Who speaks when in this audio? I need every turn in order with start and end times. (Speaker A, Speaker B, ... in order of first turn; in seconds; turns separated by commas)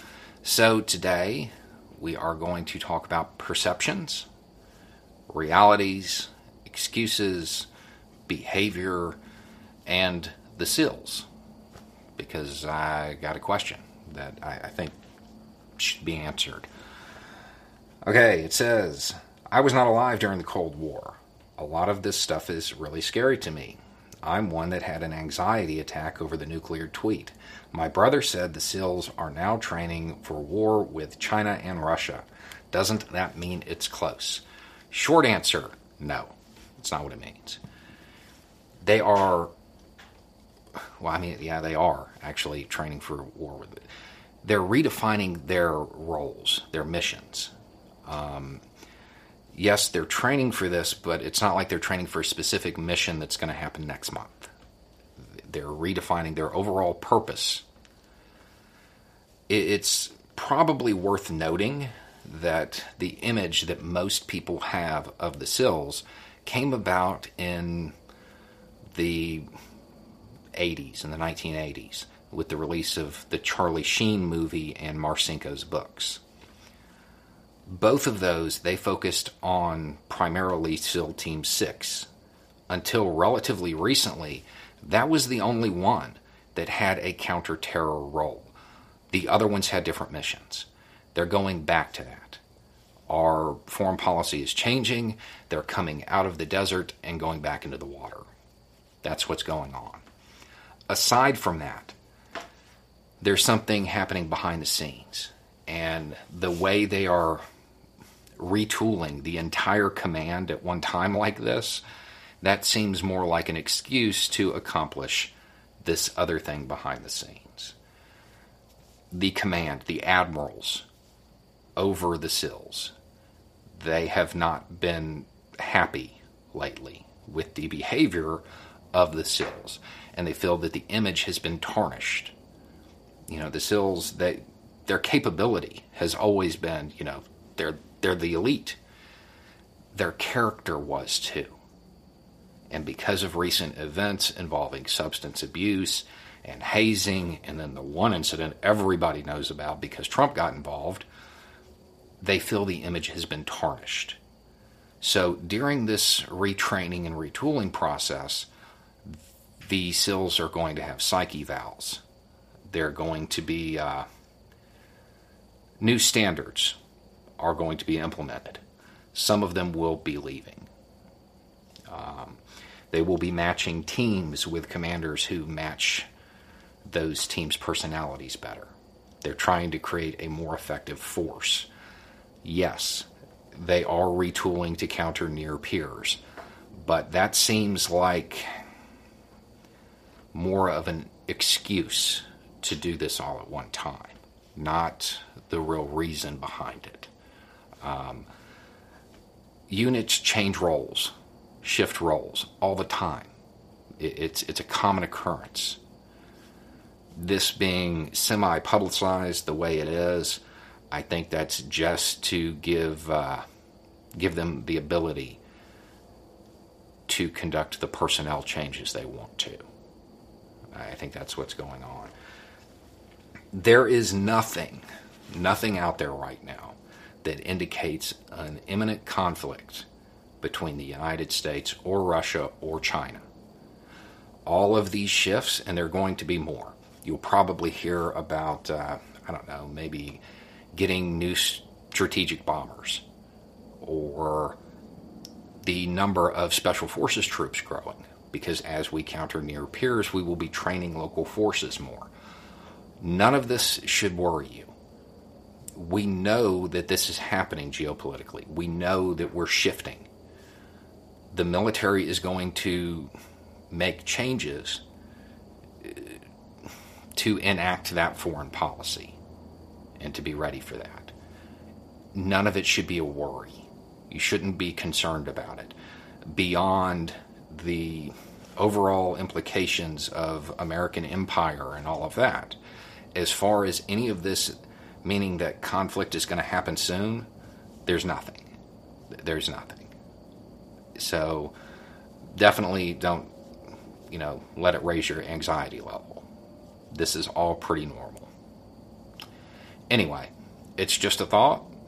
Speaker A: 0.4-4.3, Speaker A: 5.3-7.7, Speaker A: 8.3-9.2, Speaker A: 9.9-11.3, Speaker A: 12.2-14.9, Speaker A: 15.8-16.7, Speaker A: 18.1-37.6, Speaker A: 38.8-39.5, Speaker A: 41.0-43.8, Speaker A: 44.4-47.5, Speaker A: 48.0-48.6, Speaker A: 49.5-54.5, Speaker A: 55.5-57.6, Speaker A: 59.5-67.9, Speaker A: 68.9-69.5, Speaker A: 70.5-76.2, Speaker A: 77.7-82.1, Speaker A: 82.7-88.5, Speaker A: 89.1-92.4, Speaker A: 93.1-98.3, Speaker A: 99.0-100.0, Speaker A: 100.9-101.9, Speaker A: 103.2-107.4, Speaker A: 108.4-111.8, Speaker A: 112.4-117.7, Speaker A: 119.1-120.8, Speaker A: 121.8-122.9, Speaker A: 123.8-132.3, Speaker A: 133.3-138.8, Speaker A: 139.9-141.6, Speaker A: 142.7-151.1, Speaker A: 152.2-154.2, Speaker A: 155.0-158.5, Speaker A: 159.0-162.0, Speaker A: 162.7-164.1, Speaker A: 165.8-166.8, Speaker A: 167.4-168.6, Speaker A: 169.1-170.7, Speaker A: 171.9-172.4, Speaker A: 172.9-176.1, Speaker A: 176.8-181.7, Speaker A: 182.4-186.2, Speaker A: 186.8-188.5, Speaker A: 190.3-197.1, Speaker A: 197.8-198.3, Speaker A: 199.7-203.3, Speaker A: 204.0-205.8, Speaker A: 207.1-213.4, Speaker A: 214.2-215.4, Speaker A: 217.1-219.6, Speaker A: 220.7-222.1, Speaker A: 223.5-229.9, Speaker A: 230.4-233.2, Speaker A: 234.4-240.2, Speaker A: 240.7-243.0, Speaker A: 243.8-244.6, Speaker A: 245.6-252.1, Speaker A: 253.0-254.7, Speaker A: 255.8-260.1, Speaker A: 261.3-263.1, Speaker A: 263.7-264.8, Speaker A: 265.8-266.2, Speaker A: 267.1-269.2, Speaker A: 270.0-271.1, Speaker A: 272.1-275.8, Speaker A: 276.3-282.6, Speaker A: 283.1-287.3, Speaker A: 287.9-288.5, Speaker A: 289.1-289.9, Speaker A: 290.9-291.6, Speaker A: 292.3-293.3, Speaker A: 294.1-296.2, Speaker A: 296.9-298.3, Speaker A: 299.9-301.7